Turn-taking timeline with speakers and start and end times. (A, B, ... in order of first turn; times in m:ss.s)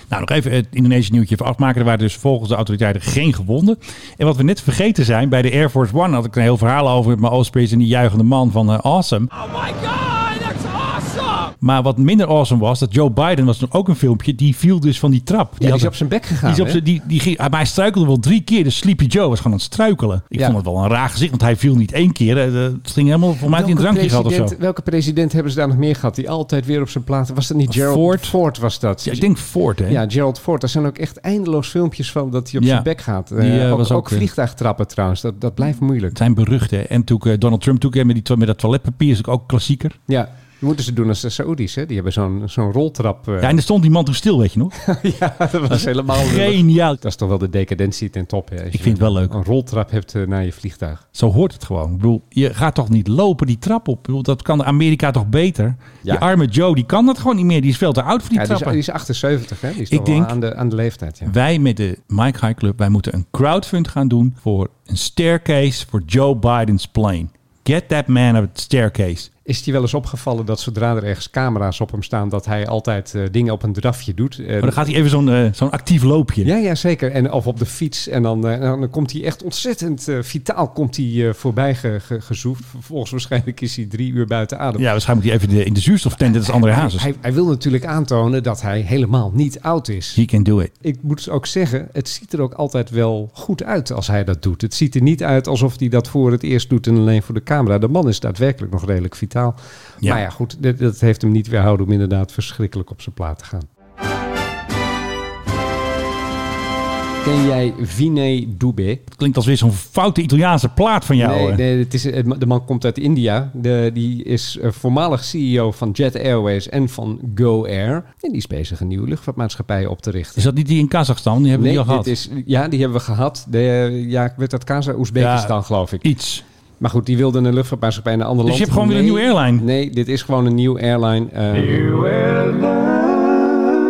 0:00.1-0:09.3 A
0:09.3-0:11.5 B
0:11.6-0:24.5 A
0:15.6-0:16.8 C
0:23.5-0:29.3 C
0:27.7-0:28.4 A
0:29.0-0:30.0 A
0:29.9-0:36.2 C
0:32.6-0:34.3 A
0:36.1-0:40.0 A
0:40.1-0:43.6 C
0:43.4-0:44.7 A
0:44.8-0:51.0 C
0:45.7-0:47.0 A
0:48.8-0:49.3 A
0:51.2-0:58.8 A
0:58.4-1:01.3 C
0:59.9-1:00.3 A
1:01.3-1:09.3 A
1:09.5-1:14.8 C
1:14.6-1:16.5 A
1:16.4-1:24.9 C
1:24.8-1:27.1 A
1:26.2-1:30.2 C
1:30.2-1:30.7 A
1:30.8-1:43.7 C
1:47.2-1:49.0 C
1:49.2-1:51.6 A
1:51.2-2:00.5 C
2:00.4-2:02.1 A
2:01.6-2:06.1 C
2:05.2-2:06.4 A
2:06.8-2:12.2 C
2:08.5-2:09.6 A